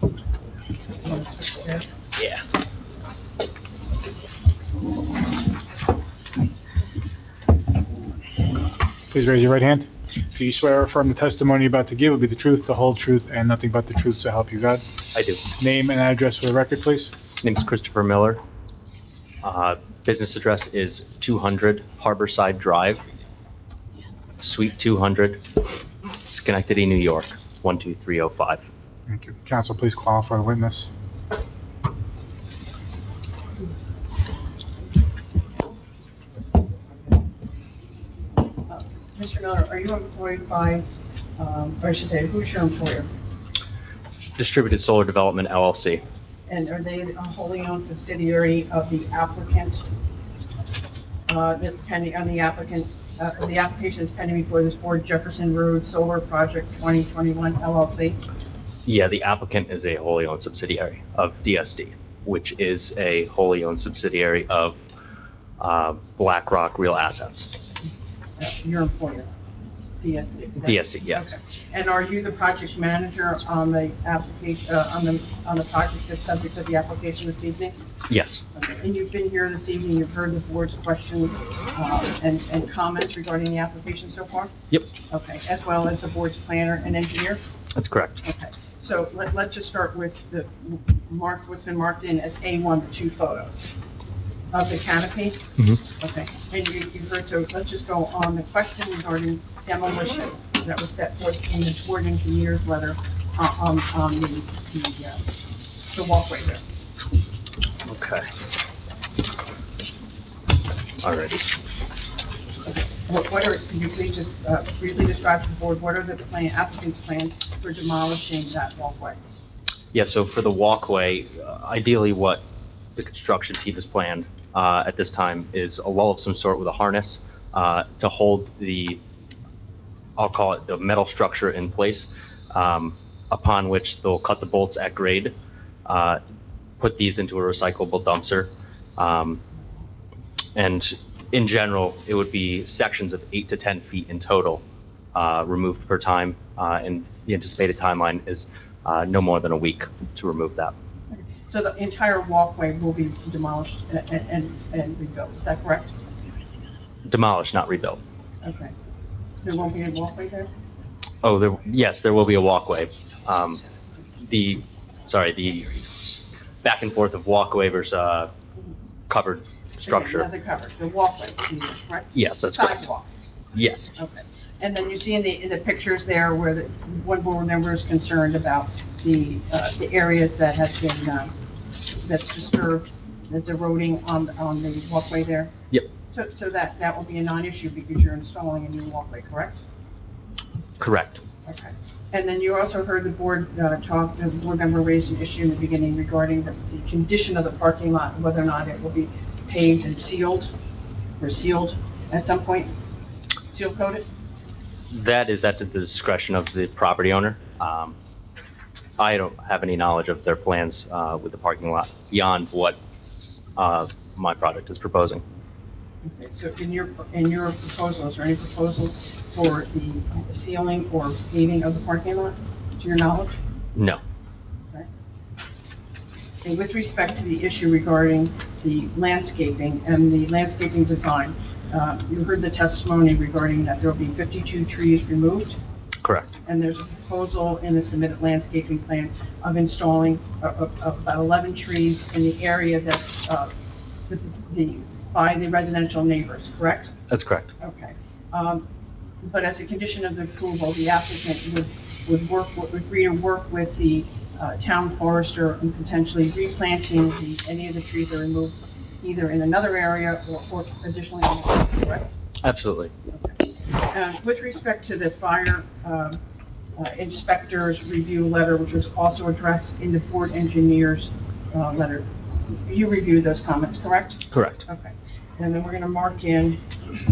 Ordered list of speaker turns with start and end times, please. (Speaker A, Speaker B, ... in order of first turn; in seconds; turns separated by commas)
Speaker A: 1.0-1.9, Speaker B: 9.1-14.8, Speaker C: 15.1-15.4, Speaker B: 15.6-17.1, Speaker C: 17.4-18.4, Speaker C: 19.4-23.0, Speaker C: 24.4-25.4, Speaker C: 26.3-28.6, Speaker B: 29.1-30.9, Speaker A: 38.6-40.8, Speaker A: 41.4-43.1, Speaker C: 44.4-46.0, Speaker A: 46.5-49.8, Speaker A: 51.3-58.2, Speaker C: 58.8-64.8, Speaker C: 65.6-67.5, Speaker A: 68.4-77.8, Speaker C: 70.6-71.3, Speaker C: 78.1-78.4, Speaker A: 78.5-84.6, Speaker A: 85.1-87.4, Speaker C: 87.7-88.2, Speaker A: 88.2-93.7, Speaker A: 94.5-95.4, Speaker A: 96.0-105.2, Speaker A: 105.9-106.6, Speaker C: 107.8-108.2, Speaker C: 111.0-111.5, Speaker A: 112.6-119.2, Speaker C: 119.9-122.4, Speaker C: 123.0-129.0, Speaker C: 130.2-135.3, Speaker C: 135.8-136.2, Speaker C: 136.8-139.4, Speaker C: 140.6-144.6, Speaker C: 145.1-150.7, Speaker A: 151.1-155.9, Speaker C: 157.0-158.0, Speaker A: 158.4-158.7, Speaker A: 159.4-160.5, Speaker C: 161.2-163.6, Speaker C: 164.2-165.8, Speaker C: 166.6-168.3, Speaker C: 169.1-170.3, Speaker A: 169.8-173.1, Speaker C: 172.1-172.7, Speaker C: 173.5-173.9, Speaker A: 173.9-181.3, Speaker A: 182.0-185.5, Speaker A: 186.1-189.6, Speaker C: 190.8-191.2, Speaker A: 191.4-200.5, Speaker A: 201.2-202.7, Speaker A: 203.5-204.1, Speaker C: 204.9-207.9, Speaker C: 209.0-212.8, Speaker C: 213.6-215.2, Speaker A: 216.0-223.4, Speaker C: 223.7-224.0, Speaker A: 226.4-235.6, Speaker A: 236.4-243.5, Speaker A: 244.1-246.9, Speaker C: 247.1-247.5, Speaker A: 247.6-248.7, Speaker A: 249.2-262.1, Speaker C: 262.4-262.9, Speaker A: 263.1-266.2, Speaker A: 266.8-276.6, Speaker C: 274.3-274.6